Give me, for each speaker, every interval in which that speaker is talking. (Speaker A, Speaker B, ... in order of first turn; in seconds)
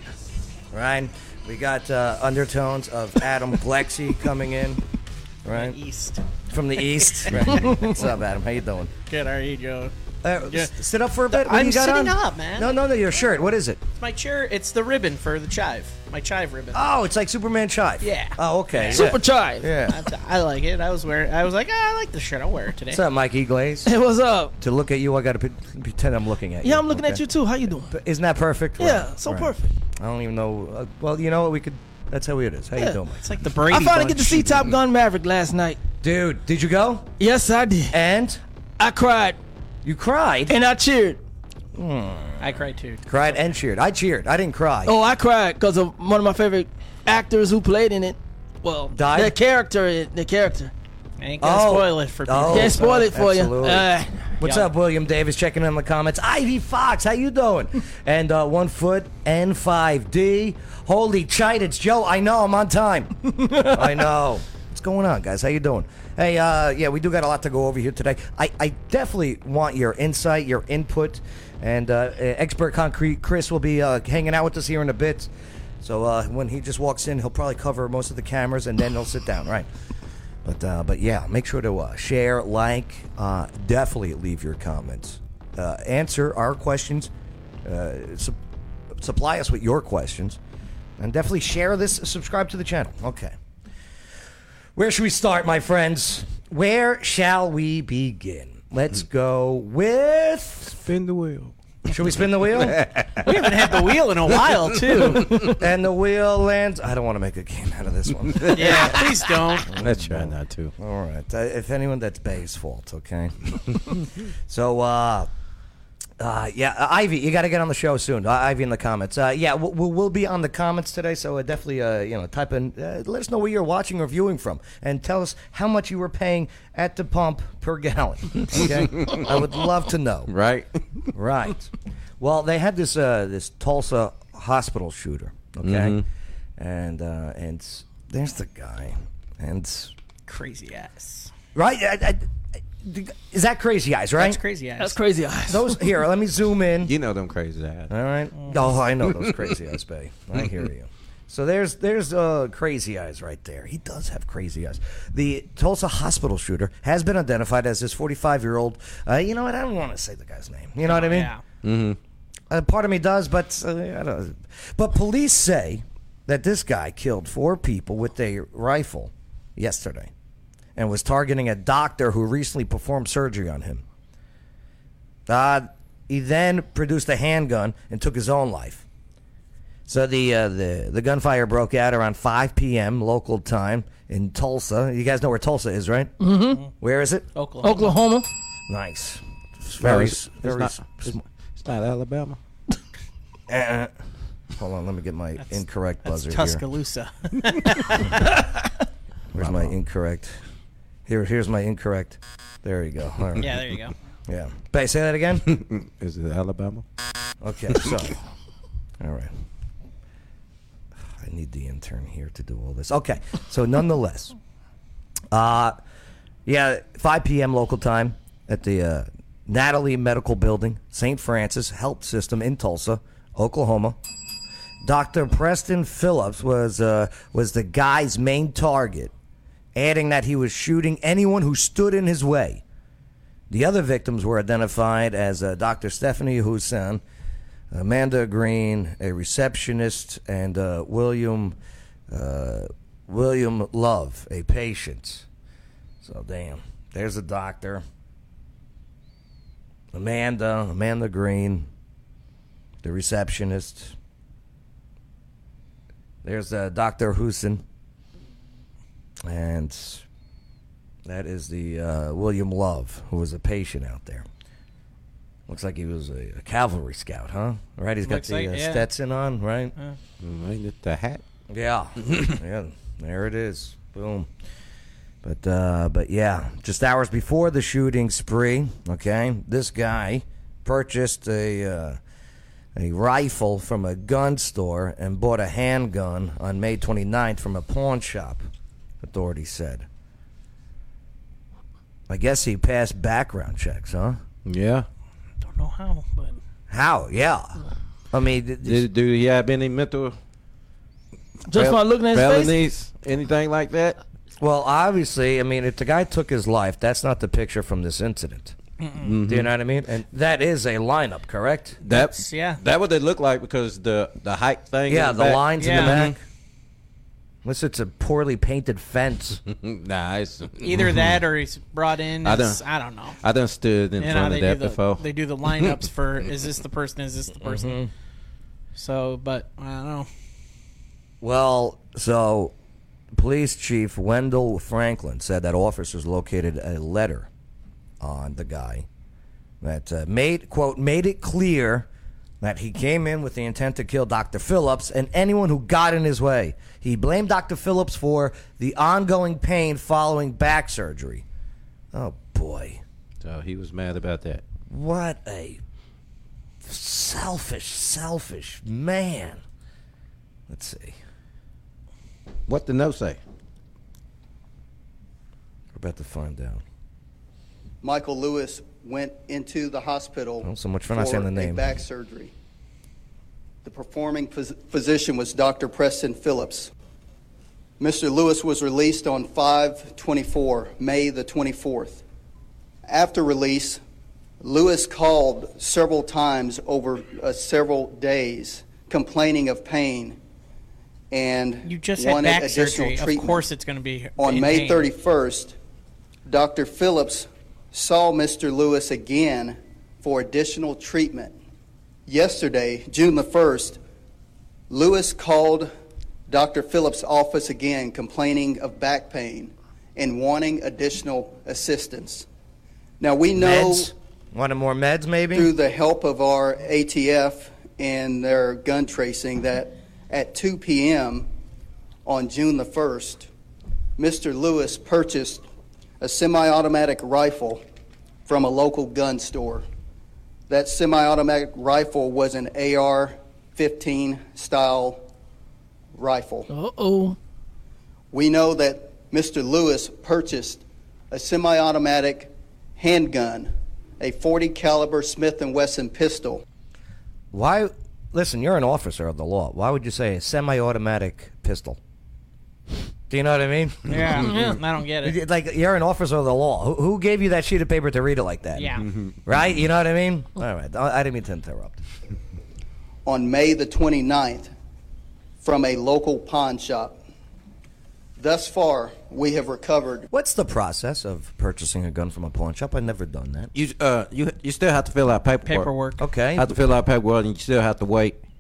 Speaker A: 0.7-4.8, 5.5-5.8, 6.5-8.9, 10.2-13.8, 16.7-20.0, 22.9-23.9, 24.6-27.2, 27.9-33.2, 36.0-37.1, 37.9-38.4, 39.8-40.6, 41.7-44.9, 48.9-49.4, 51.4-53.9, 54.4-75.3, 75.8-79.7, 80.5-87.1, 87.7-88.4, 89.0-90.4, 91.0-93.4, 94.8-100.8, 101.9-102.9, 105.4-109.0, 109.7-113.3, 113.9-115.3, 116.2-130.3, 131.1-136.0, 136.6-139.9, 141.6-142.2, 142.8-144.4, 145.5-146.9, 147.9-161.3, 162.5-170.1, 170.8-173.8, 175.3-178.8, 179.9-186.1, 186.8-187.3, 188.7-189.2, 189.7-191.2, 193.5-193.9, 194.6-196.6, 199.3-200.4, 201.1-203.5, 204.3-205.5, 207.4-208.2, 209.0-209.3, 211.2-214.4, 215.3-215.8, 216.5-224.0, 224.8-229.1, 229.8-232.6, 233.5-237.0, 237.7-241.6, 242.1-245.3, 246.0-247.8, 249.9-251.7, 252.8-254.0, 256.2-257.6, 259.2-260.1, 261.1-264.3, 265.5-269.7, 271.5-274.3, 275.2-282.0, 282.8-288.5, 289.0-289.9, 292.1-294.2, 296.7-297.6, 298.1-298.9, 304.4-308.6, 309.3-311.8, 314.9-316.2, 317.4-319.4, 327.4-327.9, 331.2-332.5, 333.1-337.3, 338.0-338.9, 339.6-341.9, 342.4-351.2, 351.9-352.8, 354.7-355.6, 356.6-359.4, 360.5-361.0, 365.7-366.6, 370.4-371.7, 413.4-415.5, 447.3-451.8, 453.1-453.9, 455.0-461.8, 470.1-473.5, 476.0-476.5
Speaker B: 5.5-6.2, 6.8-7.7, 9.1-9.9, 10.4-10.7, 11.3-12.7, 14.0-16.8, 18.0-19.2, 19.9-23.0, 33.2-34.7, 42.4-43.4, 51.2-52.8, 103.2-105.4, 108.5-109.7, 140.3-141.3, 144.2-145.0, 160.9-161.4, 187.3-187.9, 195.4-198.4, 203.4-203.9, 268.1-268.9, 295.4-296.4, 308.8-309.1, 311.9-312.6, 315.6-316.0, 320.6-323.2, 324.0-327.8, 328.8-330.1, 391.6-394.9, 453.9-455.2, 458.6-458.9, 475.4-476.0
Speaker C: 18.9-19.7, 23.9-24.5, 26.6-27.9, 28.8-29.7, 33.7-35.8, 37.2-37.9, 38.8-39.4, 40.5-41.2, 44.9-50.7, 52.5-54.4, 144.8-145.8, 186.2-186.6, 187.6-188.3, 301.5-302.6, 436.5-437.2
Speaker D: 100.7-101.5, 102.6-103.3, 105.1-105.4, 108.3-108.9, 109.7-110.7, 128.6-129.2, 130.3-131.0, 135.6-136.0, 146.8-147.9, 161.6-162.0, 189.7-192.4, 199.4-199.7, 205.5-206.8, 270.2-271.2, 272.1-272.3, 294.5-294.9, 298.6-300.2, 301.5-304.0, 309.0-309.5, 311.8-316.2, 319.5-321.2, 322.2-322.6, 323.2-325.0, 353.2-354.4, 362.5-363.2, 454.0-454.4, 458.9-459.2, 473.5-475.7, 476.4-478.2
Speaker E: 367.8-372.3, 373.6-376.7, 377.8-382.0, 382.9-383.8, 384.4-390.2, 391.1-393.4, 394.2-395.6, 396.3-401.4, 402.1-403.8, 404.7-405.7, 406.3-412.3, 413.0-413.9, 415.3-421.3, 422.1-423.3, 424.0-425.4, 426.0-427.6, 428.3-429.6, 430.5-435.0, 435.9-436.5, 438.1-446.4, 463.1-464.5, 465.4-467.0, 468.2-470.1